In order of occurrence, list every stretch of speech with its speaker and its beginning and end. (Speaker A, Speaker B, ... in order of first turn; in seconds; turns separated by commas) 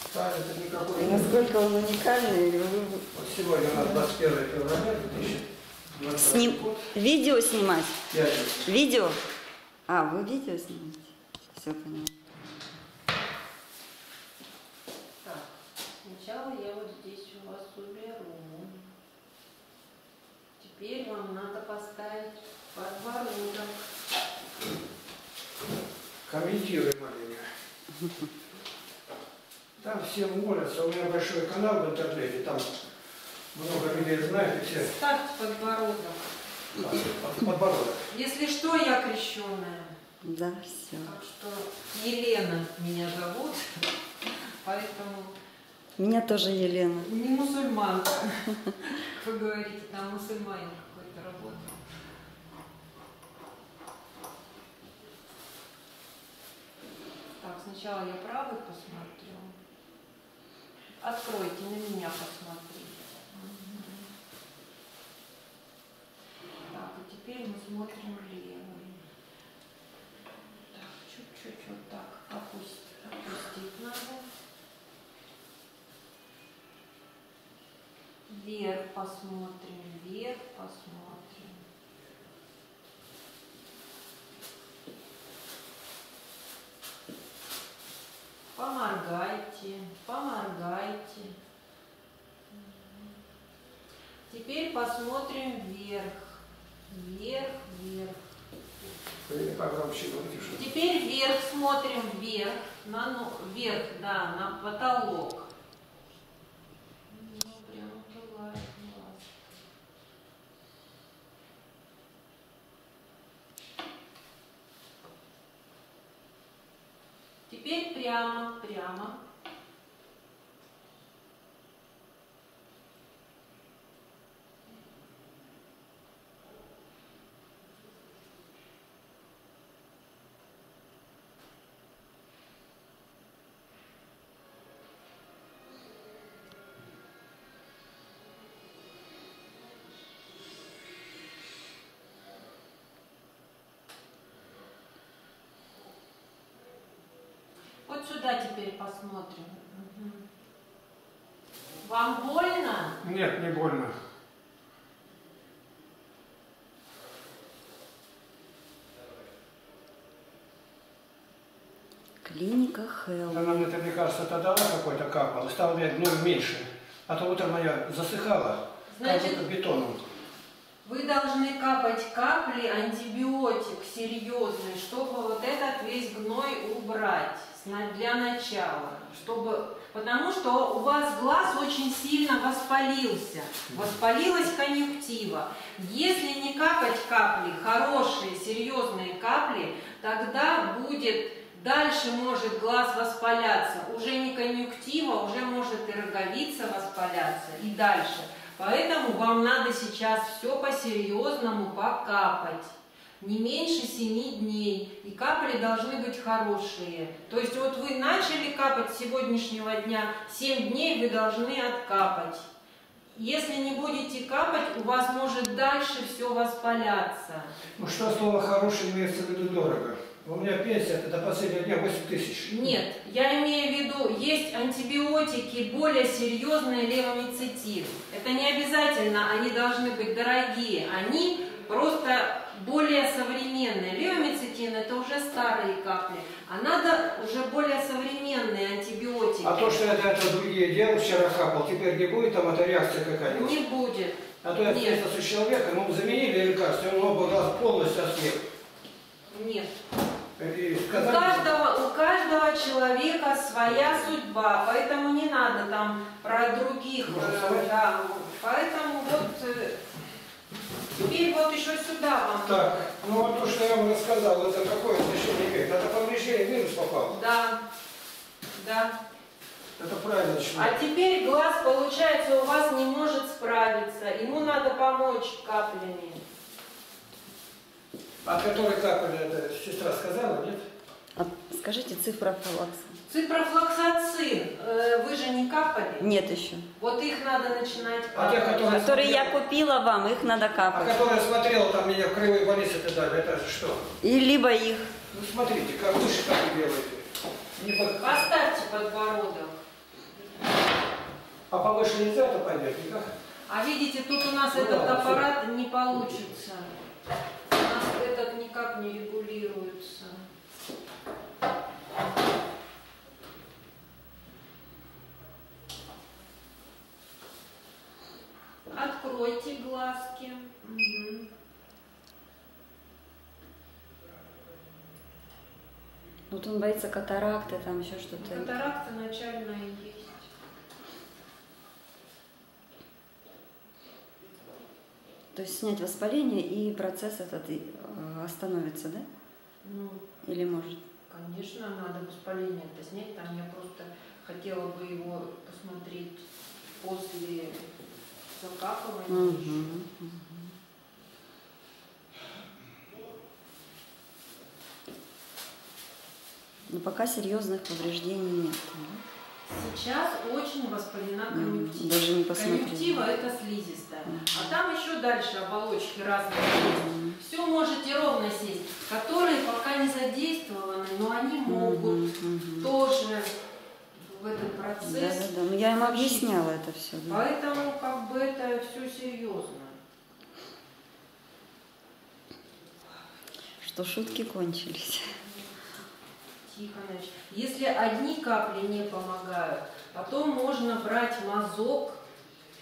Speaker A: 0.1-1.4, Speaker B: 1.0-3.1, Speaker A: 3.1-6.9, Speaker B: 6.2-8.0, Speaker A: 8.1-8.7, Speaker B: 8.6-9.2, Speaker B: 9.9-12.1, Speaker C: 15.2-15.5, Speaker C: 16.0-18.9, Speaker C: 20.6-23.7, Speaker A: 26.3-27.4, Speaker A: 29.8-32.7, Speaker A: 33.5-34.9, Speaker C: 34.8-36.3, Speaker A: 36.8-38.0, Speaker C: 38.1-39.9, Speaker B: 40.2-41.1, Speaker C: 41.0-43.8, Speaker C: 44.6-45.3, Speaker B: 46.0-47.1, Speaker C: 47.0-51.8, Speaker C: 57.4-59.5, Speaker C: 61.0-64.1, Speaker C: 66.7-69.0, Speaker C: 70.7-74.3, Speaker C: 78.3-81.6, Speaker C: 88.5-91.4, Speaker C: 92.5-93.2, Speaker C: 94.3-98.2, Speaker A: 99.3-100.6, Speaker C: 100.5-105.5, Speaker C: 107.1-109.3, Speaker C: 117.5-119.2, Speaker C: 147.9-150.2, Speaker C: 151.8-153.0, Speaker A: 153.0-153.9, Speaker B: 162.2-163.7, Speaker A: 163.3-170.0, Speaker C: 168.9-169.4, Speaker C: 170.8-212.5, Speaker C: 213.1-217.5, Speaker A: 217.8-222.6, Speaker C: 222.4-239.8, Speaker A: 239.4-243.6, Speaker C: 243.3-245.0, Speaker A: 244.4-248.5, Speaker C: 249.3-249.7, Speaker A: 250.4-251.5, Speaker C: 250.9-259.8, Speaker A: 257.1-257.7, Speaker C: 261.0-262.8, Speaker A: 262.4-267.2, Speaker C: 267.1-267.6, Speaker C: 268.6-269.0, Speaker A: 269.8-270.8, Speaker C: 270.6-276.2, Speaker A: 278.2-280.6, Speaker B: 281.2-283.0, Speaker C: 283.1-286.1, Speaker B: 286.0-286.7, Speaker C: 286.8-289.3, Speaker A: 288.1-289.3, Speaker B: 288.7-291.0, Speaker A: 290.7-293.9, Speaker B: 294.0-294.9, Speaker A: 295.1-297.0, Speaker A: 297.6-298.2, Speaker C: 298.0-299.6, Speaker A: 301.5-303.1, Speaker C: 303.5-306.7, Speaker A: 304.5-305.2, Speaker C: 307.5-310.2, Speaker C: 318.7-321.3, Speaker B: 326.3-328.6, Speaker C: 328.2-330.3, Speaker B: 335.3-339.1, Speaker C: 339.6-340.0, Speaker B: 340.2-340.8, Speaker C: 341.1-346.2, Speaker C: 346.8-347.7, Speaker C: 348.3-349.7, Speaker B: 349.1-350.5, Speaker B: 356.7-359.0, Speaker C: 359.5-372.1, Speaker B: 361.3-363.1, Speaker B: 364.1-364.6, Speaker B: 366.8-367.2, Speaker B: 371.5-372.7, Speaker C: 372.6-373.3, Speaker C: 374.0-376.4, Speaker B: 374.8-377.2, Speaker C: 377.1-379.8, Speaker B: 383.6-385.1, Speaker C: 386.4-392.0